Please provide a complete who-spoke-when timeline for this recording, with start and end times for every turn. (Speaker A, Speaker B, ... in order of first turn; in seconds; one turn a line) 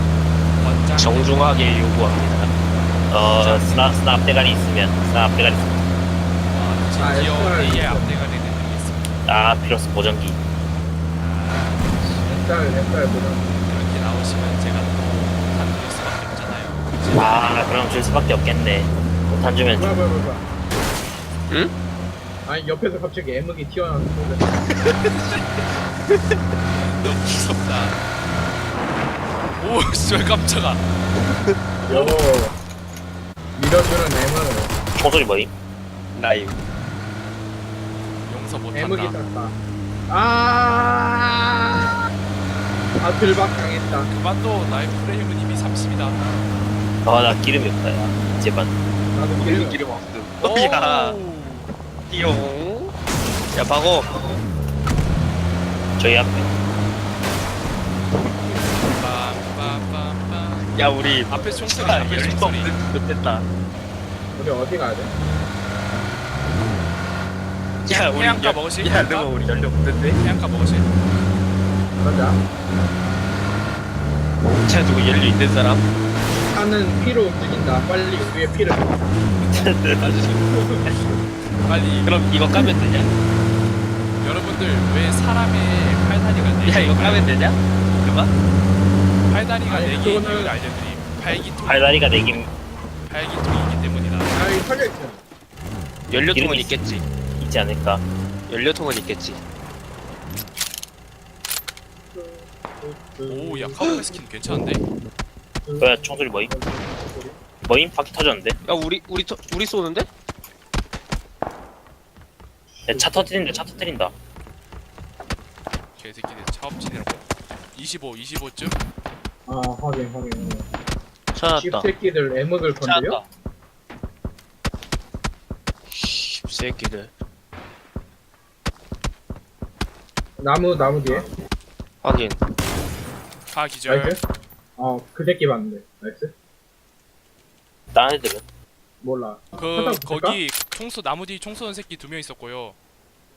Speaker A: 0.6-4.0
Speaker B: 1.0-2.5
Speaker C: 3.1-5.9
Speaker A: 6.5-9.2
Speaker D: 7.0-8.2
Speaker C: 9.2-10.4
Speaker A: 11.1-12.4
Speaker D: 12.2-13.5
Speaker A: 13.6-17.8
Speaker C: 17.1-20.0
Speaker D: 19.7-20.5
Speaker D: 22.4-24.6
Speaker B: 24.6-26.4
Speaker A: 26.8-28.0
Speaker B: 27.0-27.4
Speaker A: 29.6-30.8
Speaker A: 31.8-32.2
Speaker D: 31.9-32.5
Speaker D: 33.5-34.7
Speaker C: 35.0-35.5
Speaker B: 36.1-36.6
Speaker A: 38.2-39.2
Speaker D: 38.7-39.5
Speaker D: 40.1-42.0
Speaker D: 43.0-44.1
Speaker A: 44.1-46.2
Speaker C: 47.0-48.8
Speaker D: 49.1-49.8
Speaker B: 49.4-51.2
Speaker A: 50.4-51.7
Speaker B: 52.1-52.9
Speaker B: 53.5-54.3
Speaker C: 56.0-56.5
Speaker A: 58.4-60.7
Speaker B: 60.7-63.4
Speaker A: 61.3-62.7
Speaker D: 64.3-65.1
Speaker A: 67.8-69.3
Speaker B: 67.8-70.2
Speaker A: 70.2-70.9
Speaker D: 72.0-72.4
Speaker B: 74.5-75.8
Speaker D: 76.2-79.0
Speaker C: 79.5-80.2
Speaker B: 80.0-80.5
Speaker D: 80.5-80.8
Speaker A: 81.6-82.4
Speaker B: 82.0-83.1
Speaker A: 84.2-87.3
Speaker B: 86.6-88.3
Speaker A: 89.3-92.4
Speaker D: 89.7-90.6
Speaker C: 91.6-92.5
Speaker A: 93.0-94.5
Speaker D: 94.3-95.2
Speaker B: 96.1-97.0
Speaker C: 96.3-96.8
Speaker C: 97.4-98.0
Speaker B: 98.5-99.4
Speaker D: 102.1-103.9
Speaker A: 103.3-104.8
Speaker D: 105.7-107.4
Speaker C: 105.8-106.5
Speaker C: 107.6-108.6
Speaker B: 108.6-110.1
Speaker D: 112.7-113.4
Speaker C: 112.9-114.1
Speaker A: 115.9-118.8
Speaker D: 119.5-120.7
Speaker B: 121.3-121.9
Speaker D: 121.5-123.2
Speaker B: 122.8-123.2
Speaker B: 125.9-127.1
Speaker D: 130.4-131.2
Speaker B: 132.0-132.4
Speaker A: 133.5-134.2
Speaker D: 133.9-134.2
Speaker D: 134.8-136.3
Speaker C: 137.9-138.4
Speaker D: 139.0-140.4
Speaker A: 139.6-142.8